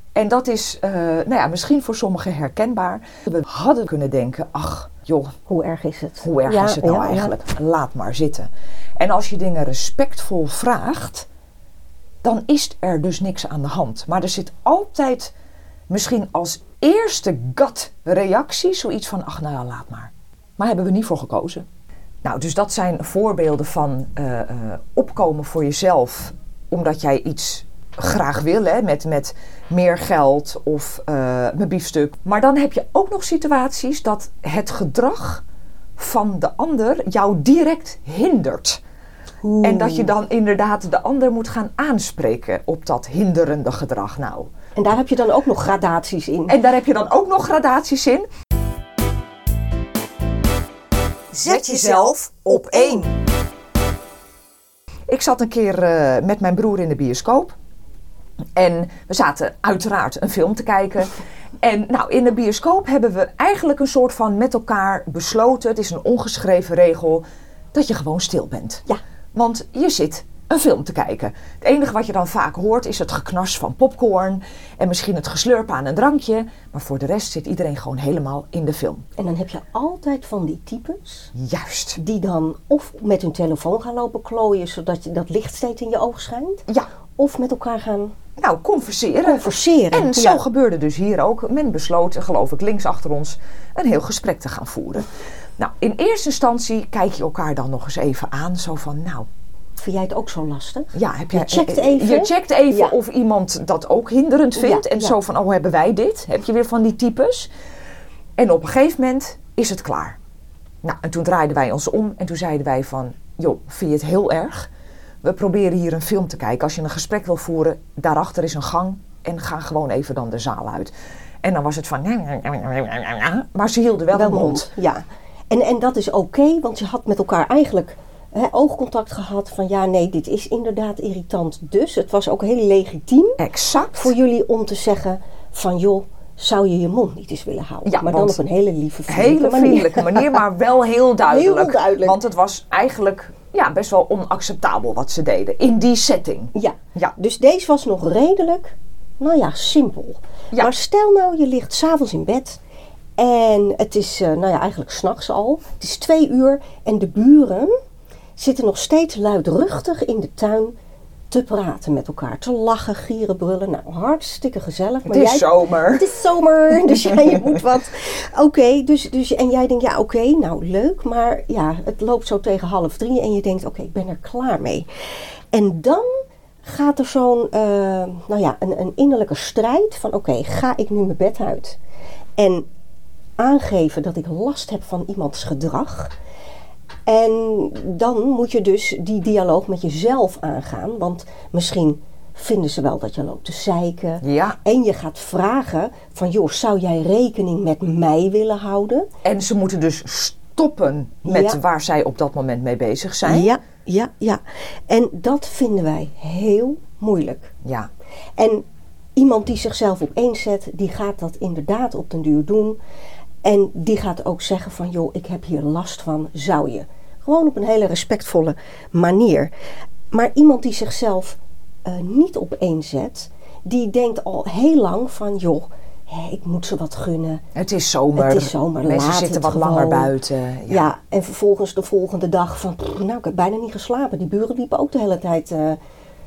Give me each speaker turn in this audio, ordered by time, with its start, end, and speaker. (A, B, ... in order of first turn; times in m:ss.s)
0:00.1-0:05.4 A
0:05.5-0:07.3 B
0:06.2-0:11.3 A
0:12.2-0:15.3 A
0:15.9-0:21.7 A
0:22.2-0:35.4 A
0:36.0-0:38.8 A
0:39.4-0:40.1 B
0:39.6-0:44.5 A
0:44.8-0:46.6 B
0:46.5-0:48.2 A
0:51.3-0:53.1 A
0:55.1-0:57.6 A
0:58.6-1:19.0 A
1:19.2-1:21.3 B
1:21.3-1:22.0 A
1:22.0-1:28.1 B
1:28.4-1:39.3 A
1:29.2-1:30.4 B
1:39.8-1:42.9 B
1:40.9-1:47.5 A
1:44.6-1:45.1 B
1:48.4-1:50.2 A
1:50.8-1:54.7 A
1:55.2-2:04.7 A
2:04.1-2:13.4 B
2:13.4-2:14.1 A
2:13.9-2:20.4 B
2:17.8-2:18.4 A
2:19.1-2:27.1 A
2:21.3-2:22.2 B
2:26.5-2:32.6 B
2:33.2-2:37.7 B
2:38.4-2:40.7 B
2:41.3-2:54.9 B
2:45.0-2:46.1 A
2:46.7-2:47.1 A
2:55.5-3:01.8 B
3:02.4-3:02.6 B
3:03.4-3:06.1 B
3:07.1-3:19.1 B
3:14.2-3:14.6 A
3:19.2-3:23.5 A
3:21.2-3:21.6 B
3:23.2-3:27.5 B
3:27.6-3:27.9 A
3:28.4-3:28.6 B
3:29.2-3:32.8 B
3:33.4-3:39.5 B
3:40.1-3:47.4 B
3:47.5-3:50.9 A
3:48.1-3:50.1 B
3:50.7-3:55.8 B